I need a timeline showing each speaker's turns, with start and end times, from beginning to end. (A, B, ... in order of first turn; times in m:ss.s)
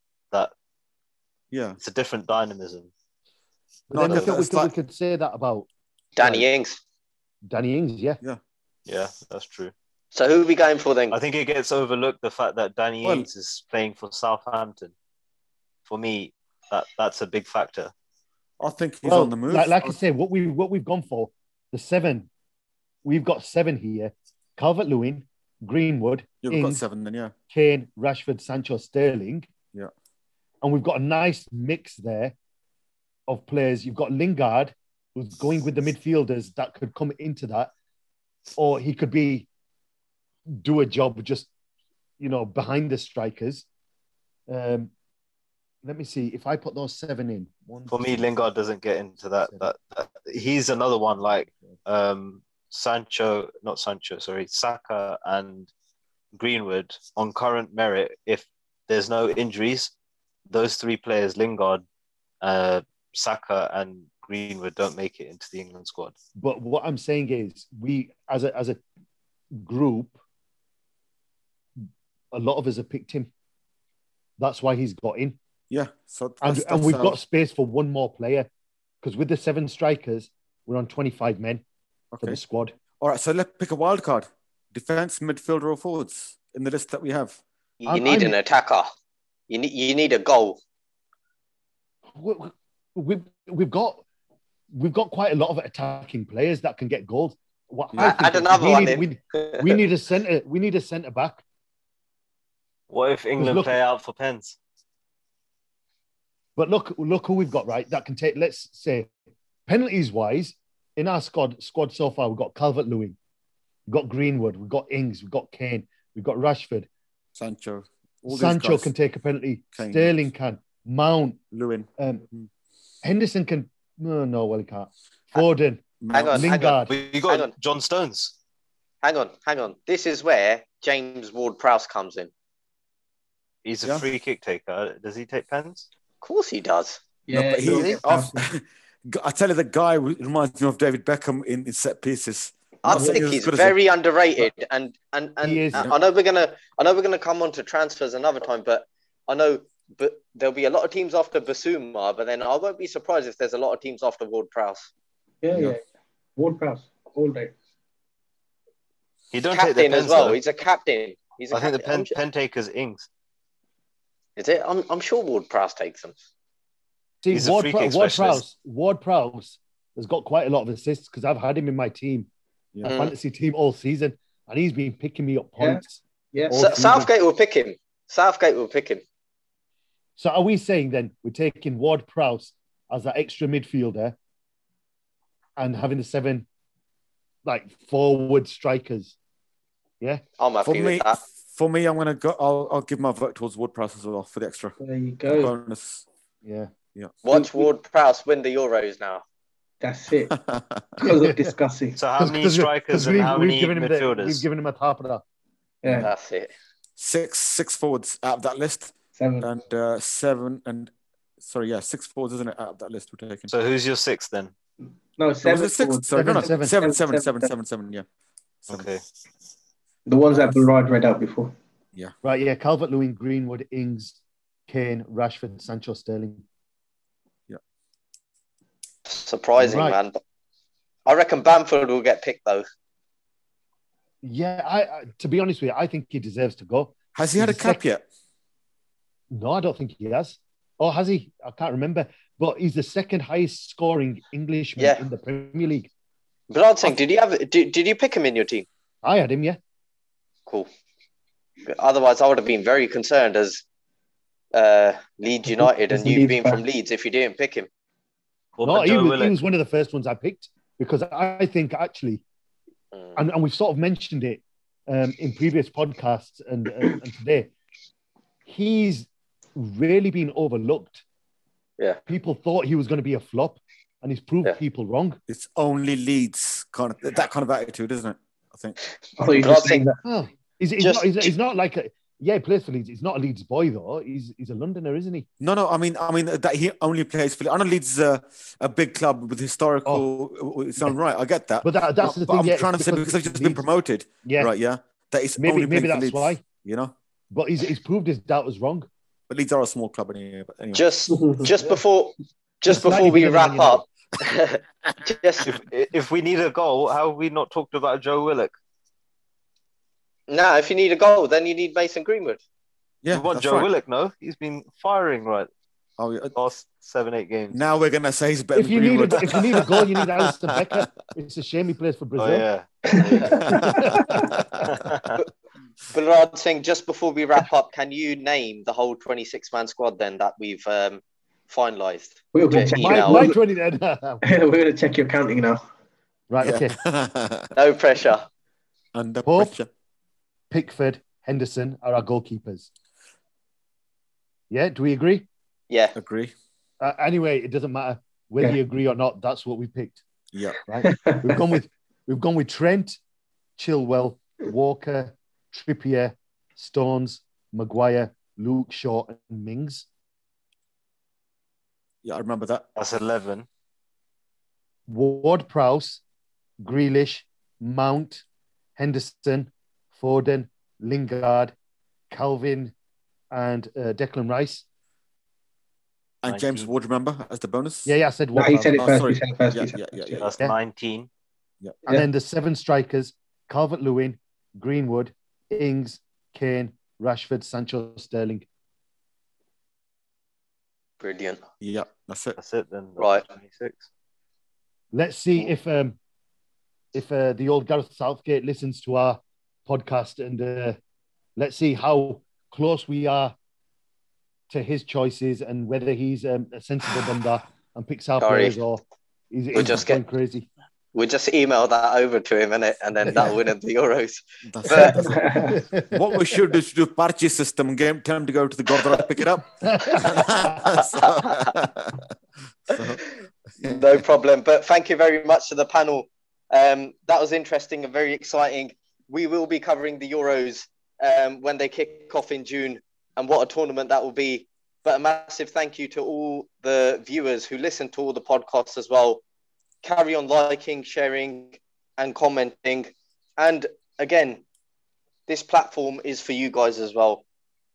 0:01.5-0:01.8 A
0:01.8-0:02.9 B
0:03.9-0:05.7 C
0:03.9-0:04.7 A
0:04.0-0:04.3 B
0:06.2-0:06.8 D
0:06.2-0:06.4 C
0:07.4-0:08.2 C
0:08.8-0:09.7 B
0:10.1-0:11.2 D
0:11.1-0:14.9 B
0:13.0-0:13.3 A
0:15.9-0:17.9 B
0:18.6-0:19.9 A
0:19.0-0:22.3 C
0:23.0-0:26.8 C
0:26.4-0:27.3 A
0:27.5-0:29.5 C
0:30.6-0:32.4 C
0:33.3-0:37.7 C
0:38.6-0:39.5 C
0:40.5-0:41.5 C
0:42.2-0:43.6 C
0:44.5-0:44.9 C
0:45.8-0:48.4 C
0:47.9-0:55.7 B
0:56.3-0:59.9 B
1:00.5-1:01.8 B
1:02.4-1:06.1 B
1:06.4-1:08.8 C
1:09.6-1:10.2 C
1:12.3-1:13.3 C
1:14.4-1:15.4 C
1:15.7-1:17.2 A
1:16.4-1:18.5 C
1:19.0-1:21.6 C
1:22.1-1:22.4 A
1:22.2-1:22.8 C
1:23.0-1:27.4 A
1:27.8-1:28.9 D
1:27.9-1:28.4 C
1:29.5-1:30.6 D
1:32.1-1:34.0 C
1:34.7-1:41.4 C
1:37.9-1:38.2 A
1:38.0-1:39.8 D
1:42.9-1:44.6 B
1:43.4-1:43.7 C
1:46.6-1:49.1 C
1:49.7-1:53.2 C
1:53.9-1:56.9 C
1:57.3-1:58.9 A
1:58.3-2:01.4 C
1:59.7-2:00.3 A
2:01.5-2:02.5 A
2:02.0-2:02.2 C
2:03.0-2:06.9 C
2:06.0-2:06.5 A
2:06.1-2:07.5 D
2:06.8-2:08.3 B
2:09.0-2:12.3 D
2:13.6-2:15.9 B
2:16.2-2:17.0 D
2:17.3-2:18.4 E
2:17.3-2:23.8 A
2:17.7-2:18.0 D
2:22.8-2:34.9 D
2:22.9-2:23.2 E
2:25.4-2:25.9 C
2:35.4-2:35.8 E
2:36.4-2:37.5 E
2:39.3-2:40.4 B
2:39.5-2:42.1 D
2:41.5-2:43.1 B
2:44.4-2:46.2 D
2:47.2-2:52.3 C
2:47.3-2:48.4 B
2:52.7-2:53.0 A
2:52.8-2:53.1 D
2:52.8-2:57.1 C
2:56.3-2:56.8 E
2:56.5-2:59.0 D
3:00.2-3:04.2 C
3:05.6-3:06.5 C
3:07.4-3:09.2 C
3:10.4-3:11.2 D
3:10.6-3:14.7 A
3:14.8-3:15.5 E
3:15.3-3:16.0 A
3:16.4-3:16.7 C
3:17.2-3:19.2 D
3:17.3-3:17.7 E
3:19.8-3:20.4 E
3:20.3-3:21.0 A
3:21.0-3:22.0 E
3:21.0-3:21.5 C
3:22.0-3:24.4 B
3:22.2-3:25.2 C
3:25.8-3:26.1 E
3:25.9-3:26.5 D
3:27.0-3:33.5 A
3:29.2-3:29.5 E
3:33.5-3:34.5 B
3:35.2-3:37.5 E
3:35.4-3:38.0 A
3:36.1-3:36.8 C
3:38.7-3:39.0 B
3:40.0-3:41.5 E
3:42.2-3:46.4 C
3:49.0-3:50.2 D
3:49.6-3:50.0 C
3:51.0-3:52.6 D
3:54.2-3:57.8 C
3:57.1-3:58.0 A
3:59.3-4:05.9 C
4:06.5-4:08.6 D
4:09.0-4:09.6 C
4:11.7-4:13.6 D
4:14.5-4:17.7 D
4:15.9-4:16.6 E
4:18.6-4:19.3 B
4:18.6-4:22.2 C
4:23.2-4:27.5 C
4:28.4-4:31.0 C
4:32.0-4:35.2 C
4:35.3-4:38.8 A
4:39.2-4:40.0 E
4:39.3-4:39.9 D
4:40.0-4:45.3 C
4:40.8-4:41.3 D
4:45.4-4:56.9 A
4:51.6-4:53.6 C
4:54.2-4:54.5 C
4:55.4-4:56.4 C
4:57.3-4:58.9 C
4:59.3-5:00.8 A
5:00.7-5:05.5 D
5:01.1-5:01.5 E
5:02.6-5:03.8 C
5:05.4-5:08.5 B
5:10.3-5:12.4 D
5:13.0-5:13.7 A
5:13.1-5:15.5 B
5:16.0-5:16.3 A
5:16.3-5:17.6 B
5:17.5-5:20.9 A
5:18.5-5:22.4 C
5:22.2-5:22.6 B
5:22.9-5:23.6 E
5:23.0-5:23.4 D
5:23.4-5:24.7 A
5:23.4-5:24.2 C
5:24.8-5:25.2 B
5:25.9-5:33.3 D
5:32.3-5:33.4 E
5:32.5-5:34.2 C
5:34.2-5:35.6 E
5:36.3-5:36.7 C
5:36.4-5:37.5 A
5:37.5-5:38.2 D
5:38.9-5:39.7 A
5:39.2-5:39.5 C
5:40.5-5:42.7 C
5:44.5-5:45.3 C
5:45.7-5:45.9 D
5:45.9-5:46.3 A
5:46.8-5:50.0 C
5:50.3-5:50.6 A
5:50.7-5:53.0 C
5:50.9-5:51.2 E
5:53.6-5:59.8 C
6:02.0-6:02.6 A
6:02.8-6:03.4 B
6:04.9-6:06.0 C
6:06.6-6:08.2 C
6:08.8-6:11.5 C
6:12.1-6:12.7 C
6:13.3-6:14.6 C
6:16.2-6:17.9 A
6:16.3-6:16.7 B
6:17.8-6:18.9 C
6:18.3-6:20.3 E
6:18.8-6:20.3 A
6:20.2-6:21.1 B
6:21.9-6:28.4 C
6:31.0-6:31.4 D
6:31.6-6:32.4 A
6:32.4-6:33.9 B
6:33.0-6:33.2 D
6:34.9-6:36.0 C
6:36.9-6:40.8 C
6:41.4-6:43.3 C
6:44.5-6:50.5 C
6:48.2-6:48.6 D
6:49.5-6:50.0 D
6:50.9-6:55.1 D
6:54.4-7:02.1 A
6:54.8-6:55.6 E
6:55.5-6:56.0 C
6:59.6-7:00.7 C
7:00.8-7:01.5 D
7:02.7-7:03.0 A
7:03.6-7:03.9 A
7:03.6-7:19.2 D
7:19.8-7:24.4 D
7:25.3-7:27.2 D